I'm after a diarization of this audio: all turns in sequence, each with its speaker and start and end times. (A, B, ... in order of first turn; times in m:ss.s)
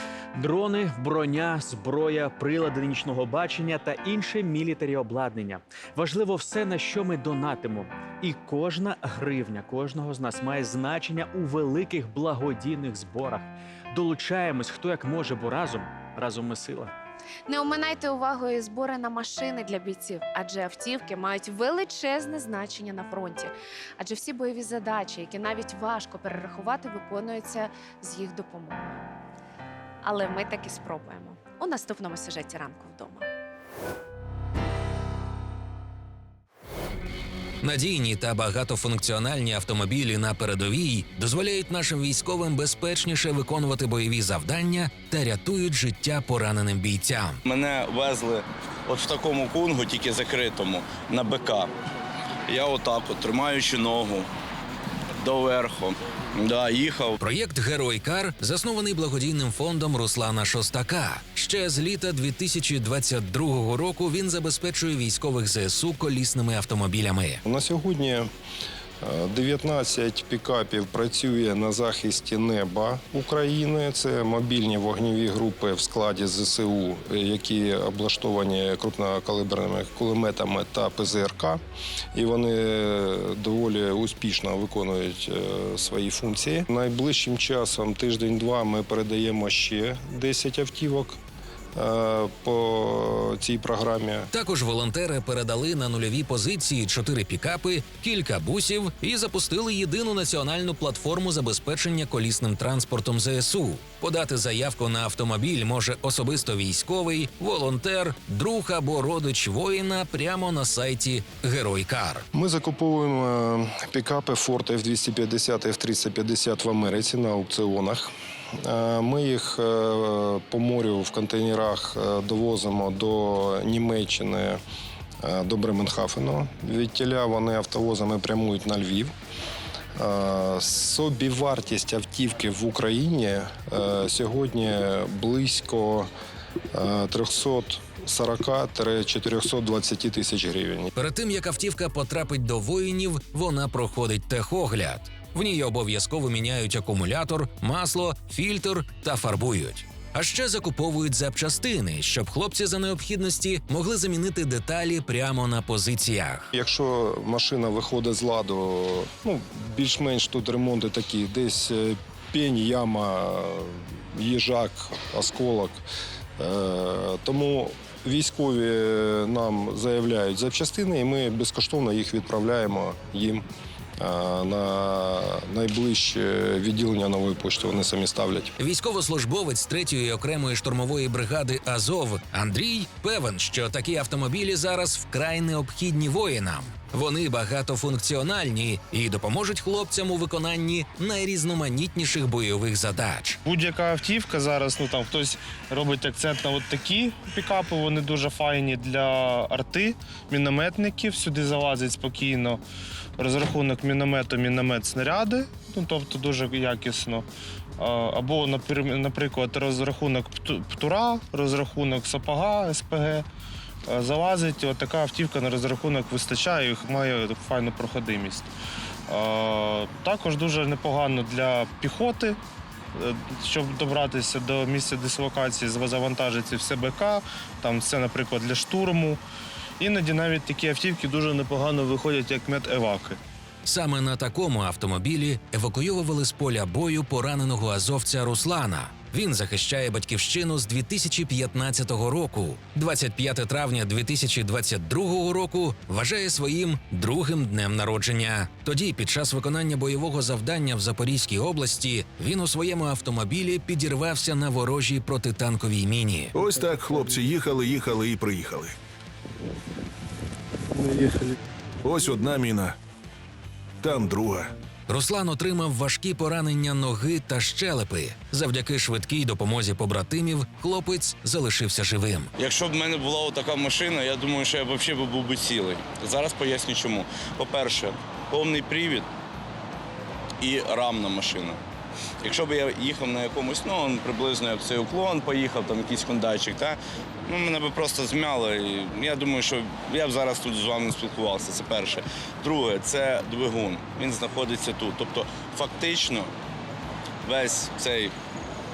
0:00.3-0:16.9 A
0:17.5-0:29.0 B
0:30.0-0:33.2 B
0:37.6-0:47.4 C
0:47.4-0:51.7 D
0:52.5-0:54.3 D
0:55.2-0:57.2 D
0:57.2-1:07.4 C
1:07.4-1:08.3 E
1:09.0-1:21.6 E
1:22.1-1:31.2 E
1:31.7-1:34.3 E
1:34.3-1:52.2 C
1:52.3-1:58.1 E
1:58.6-2:04.6 E
2:05.2-2:09.1 E
2:10.0-2:16.1 E
2:16.7-2:20.9 E
2:21.0-2:36.5 C
2:36.5-2:45.8 E
2:46.4-2:53.4 E
2:54.0-2:58.5 E
2:58.6-3:13.4 C
3:13.4-3:22.6 F
3:23.2-3:27.2 F
3:27.8-3:33.2 F
3:33.9-3:38.5 F
3:39.1-3:42.4 F
3:42.9-3:49.2 F
3:49.8-3:53.2 F
3:53.6-4:16.3 C
4:16.3-4:18.8 G
4:20.8-4:21.3 G
4:21.8-4:22.8 G
4:23.8-4:24.5 G
4:24.9-4:32.3 C
4:32.4-4:39.1 D
4:40.4-4:41.6 D
4:42.2-4:56.3 D
4:57.2-4:58.1 D